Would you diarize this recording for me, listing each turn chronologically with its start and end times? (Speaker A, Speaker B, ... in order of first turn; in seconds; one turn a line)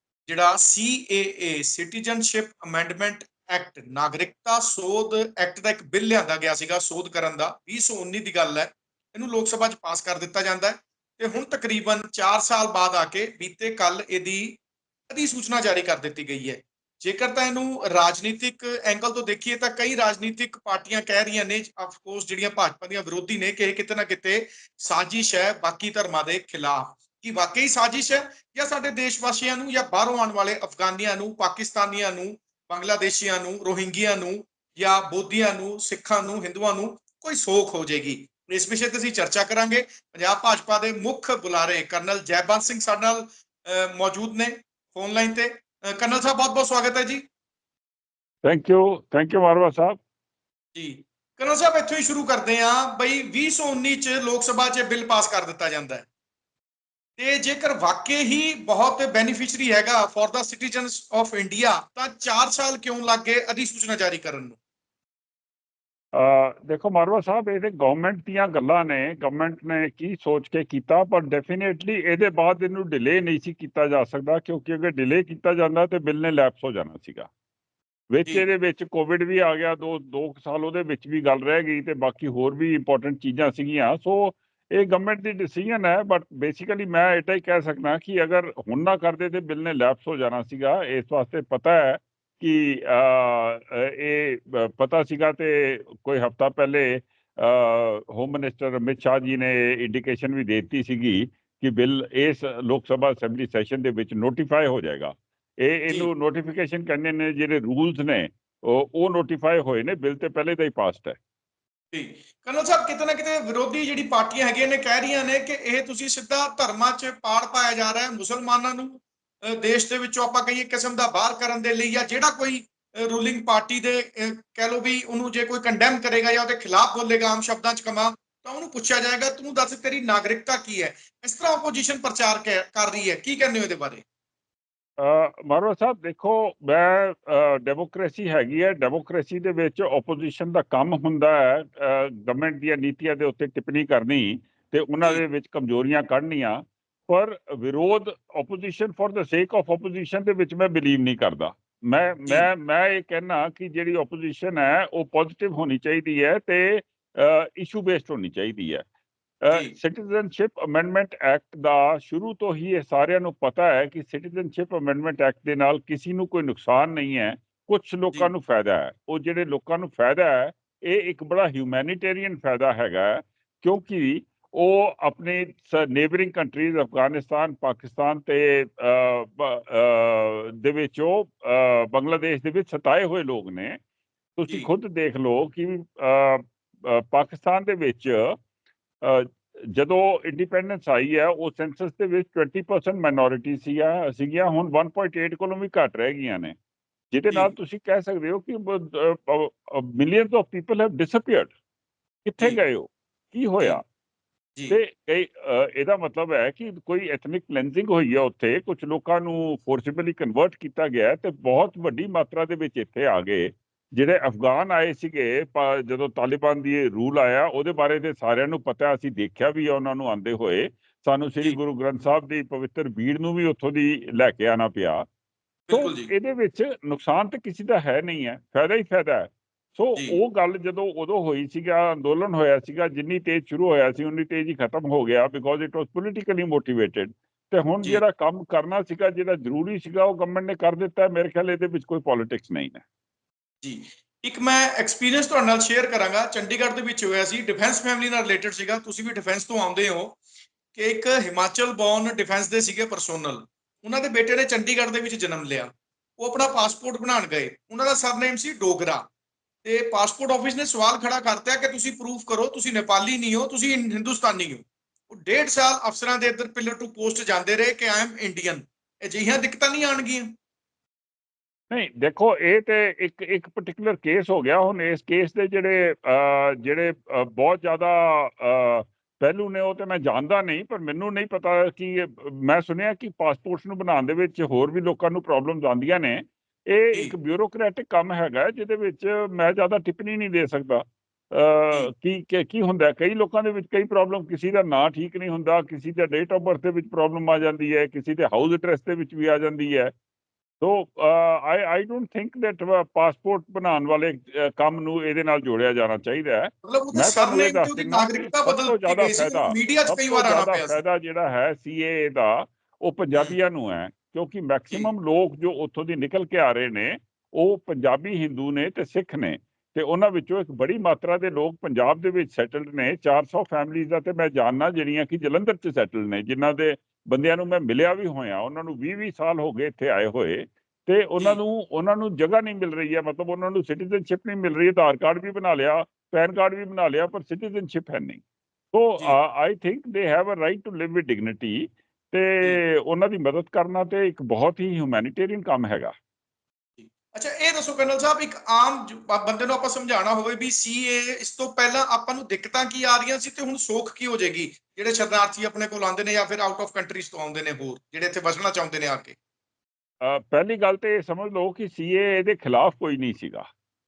Speaker A: 0.3-14.6
Speaker A: 15.1-47.2
Speaker B: 48.4-50.0
Speaker A: 50.8-56.1
Speaker A: 57.2-64.6
Speaker B: 66.2-77.3
Speaker B: 78.1-111.2
Speaker A: 111.9-134.0
Speaker B: 135.0-158.8
Speaker B: 159.5-183.8
Speaker B: 184.4-188.3
Speaker B: 189.0-196.6
Speaker B: 197.1-201.5
Speaker B: 202.3-203.8
Speaker B: 204.7-225.0
Speaker A: 225.7-226.1
Speaker B: 225.7-242.8
Speaker A: 243.6-250.2
Speaker A: 250.8-259.0
Speaker A: 259.6-270.3
Speaker B: 271.7-299.9
Speaker B: 300.6-338.2
Speaker A: 306.6-310.8
Speaker B: 338.7-345.9
Speaker A: 346.8-359.2
Speaker B: 360.0-363.5